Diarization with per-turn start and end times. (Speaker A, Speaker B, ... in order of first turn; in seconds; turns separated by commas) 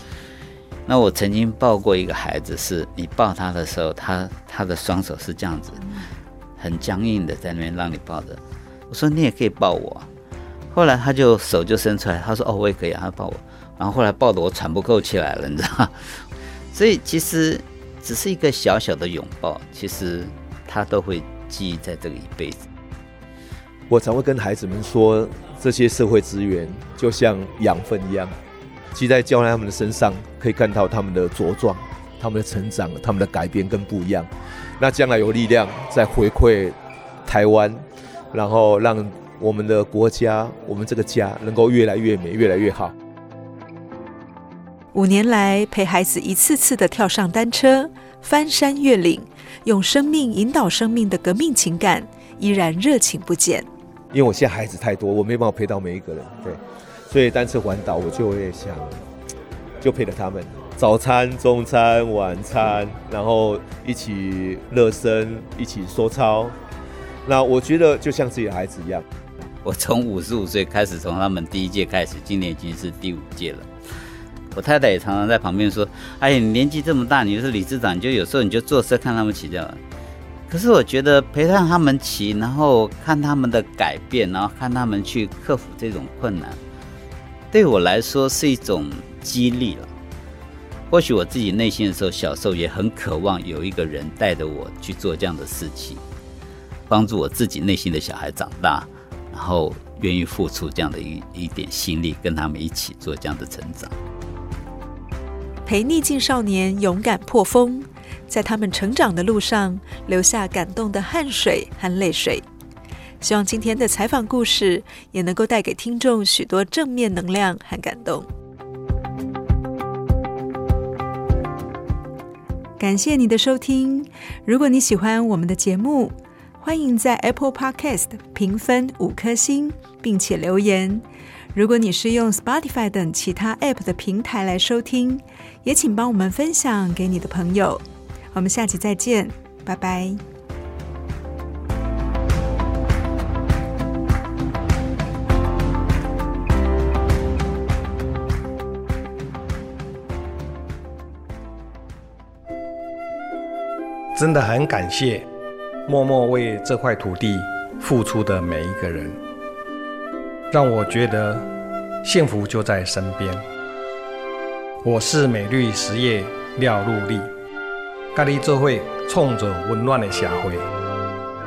Speaker A: 0.9-5.8, Speaker A: 6.6-10.1, Speaker A: 10.7-15.9, Speaker A: 16.7-22.7, Speaker B: 23.9-28.3, Speaker B: 28.9-34.3, Speaker B: 34.8-42.9, Speaker C: 44.9-53.7, Speaker B: 54.1-59.0, Speaker B: 59.8-66.6, Speaker B: 67.2-69.0, Speaker A: 69.6-73.7, Speaker A: 74.5-79.8, Speaker A: 80.5-86.6, Speaker A: 87.5-89.9, Speaker A: 90.9-96.0, Speaker A: 96.9-103.9, Speaker C: 105.7-112.5, Speaker C: 113.2-118.3, Speaker C: 122.8-140.2, Speaker D: 154.2-155.2, Speaker D: 155.9-159.2, Speaker D: 160.5-161.5, Speaker D: 162.0-163.4, Speaker D: 164.8-167.3, Speaker D: 168.1-170.7